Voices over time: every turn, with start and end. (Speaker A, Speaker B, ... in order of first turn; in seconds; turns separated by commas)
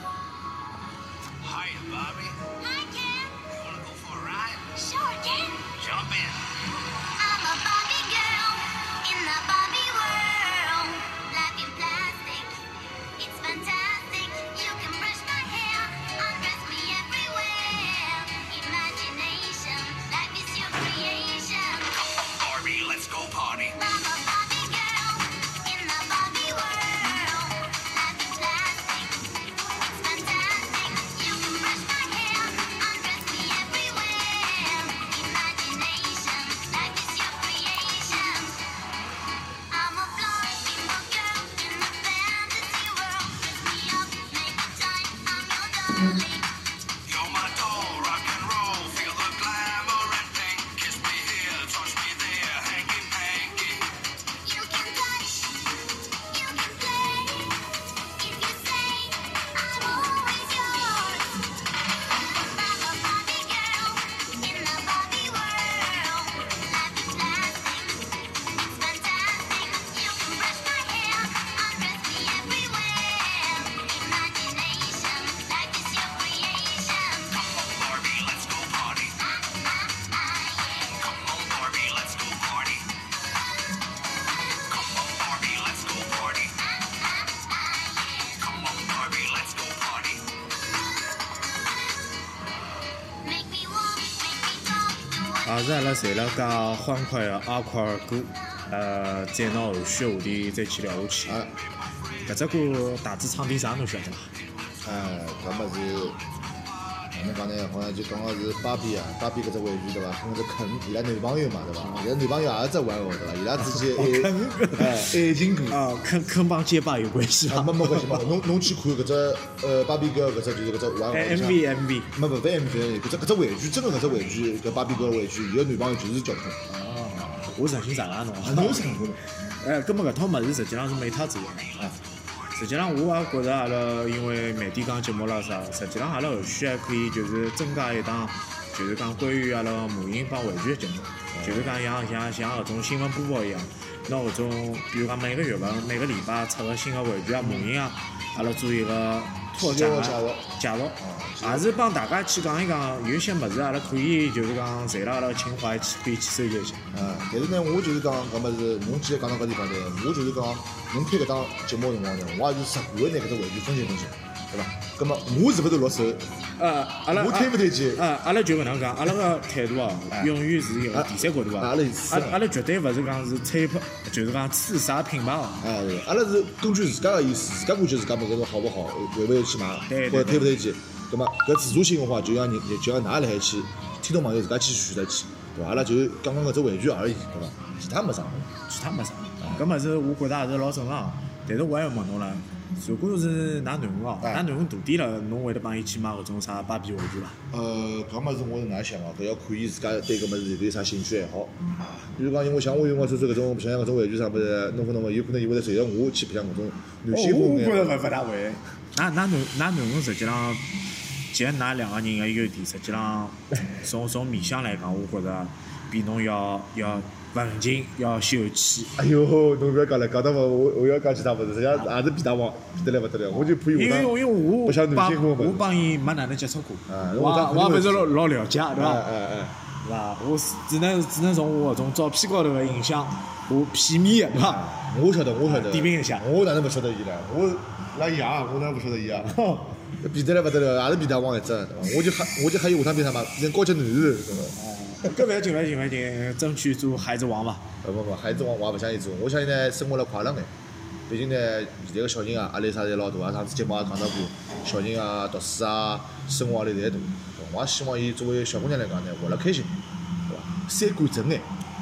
Speaker A: 1.4-2.5, Speaker B: 2.6-3.5, Speaker A: 3.5-4.7, Speaker B: 4.7-5.8, Speaker A: 5.8-6.5, Speaker B: 7.2-12.6, Speaker B: 13.2-22.1, Speaker A: 22.1-23.7, Speaker B: 23.7-38.6, Speaker B: 39.7-46.5, Speaker A: 47.1-53.9, Speaker B: 54.4-57.5, Speaker B: 58.2-61.5, Speaker B: 62.4-77.5, Speaker A: 77.5-79.1, Speaker B: 79.2-81.1, Speaker A: 81.0-83.0, Speaker A: 84.7-86.5, Speaker B: 86.6-88.7, Speaker A: 88.5-90.3, Speaker B: 93.2-95.7, Speaker C: 95.5-101.4, Speaker D: 101.3-101.5, Speaker C: 102.2-104.3, Speaker D: 104.8-106.2, Speaker D: 107.1-115.8, Speaker C: 113.6-115.1, Speaker C: 115.7-118.3, Speaker D: 117.5-121.6, Speaker C: 121.1-122.1, Speaker D: 122.1-127.5, Speaker C: 127.2-131.8, Speaker D: 128.4-129.2, Speaker C: 132.5-156.8, Speaker D: 141.3-141.8, Speaker D: 147.4-147.7, Speaker D: 149.6-150.5, Speaker D: 151.0-151.7, Speaker D: 156.9-166.3, Speaker C: 166.6-175.7, Speaker D: 167.1-168.1, Speaker D: 170.9-172.4, Speaker D: 175.6-188.5, Speaker C: 179.9-180.5, Speaker C: 188.7-197.4, Speaker D: 189.4-189.7, Speaker D: 194.2-194.5, Speaker D: 197.5-208.0, Speaker C: 207.1-210.7, Speaker C: 211.3-219.0, Speaker D: 219.0-225.7, Speaker C: 223.3-229.1, Speaker D: 226.9-228.1, Speaker D: 228.7-229.6, Speaker C: 229.8-234.7, Speaker D: 234.4-239.3, Speaker C: 235.4-236.2, Speaker C: 239.2-239.8, Speaker D: 239.9-245.2, Speaker C: 244.6-247.7, Speaker D: 247.8-250.5, Speaker D: 251.1-261.5